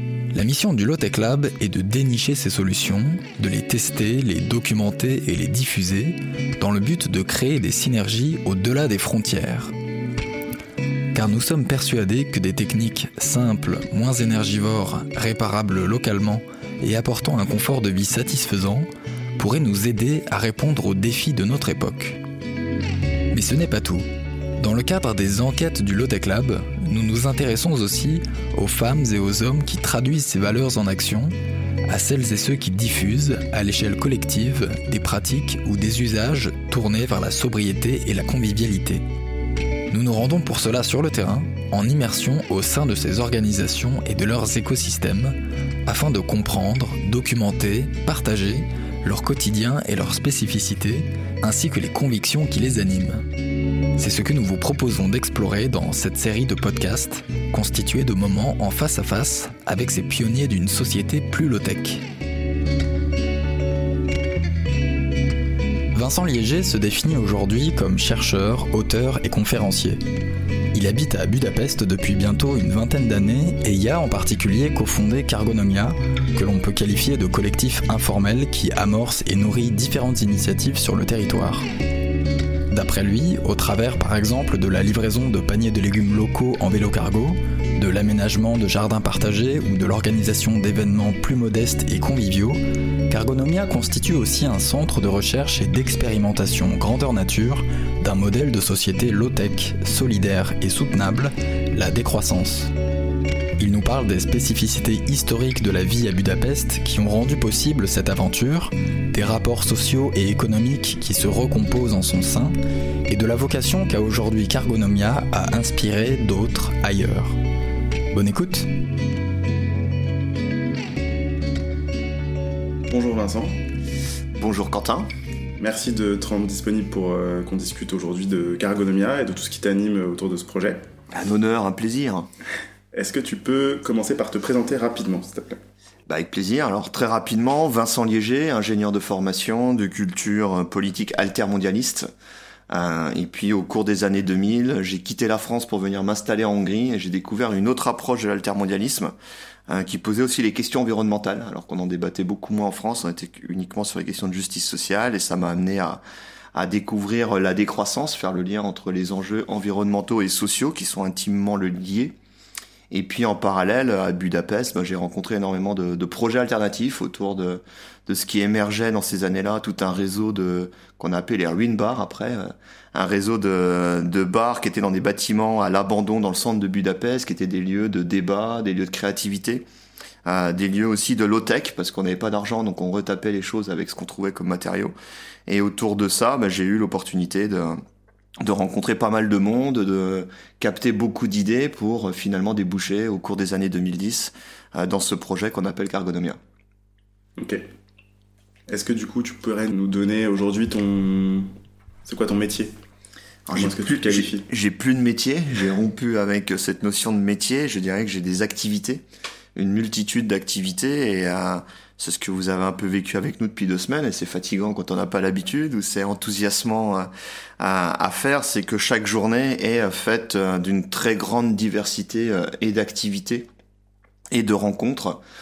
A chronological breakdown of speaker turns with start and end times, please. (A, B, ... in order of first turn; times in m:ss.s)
0:00.3-0:09.7 A
0:11.1-0:22.2 A
0:23.3-0:24.1 A
0:24.6-0:31.3 A
0:31.9-0:39.1 A
0:39.9-0:53.2 A
0:54.0-1:02.0 A
1:05.9-1:10.0 A
1:10.7-1:21.7 A
1:22.7-1:42.7 A
1:43.6-1:52.6 A
1:53.1-1:57.4 A
1:58.1-1:58.7 A
2:02.9-2:03.6 B
2:04.4-2:05.1 C
2:05.6-2:10.9 B
2:11.1-2:12.3 C
2:12.9-2:15.6 B
2:16.1-2:22.1 C
2:22.7-2:29.1 C
2:29.7-2:36.0 C
2:36.6-2:42.1 C
2:42.9-2:59.6 C
3:00.3-3:04.9 C
3:05.5-3:07.8 C
3:08.4-3:16.4 C
3:17.4-3:17.6 B
3:18.7-3:21.5 B
3:22.0-3:22.7 B
3:23.5-3:29.0 C
3:23.5-3:24.5 B
3:29.6-3:37.1 C
3:37.6-3:43.5 C
3:44.3-3:45.2 C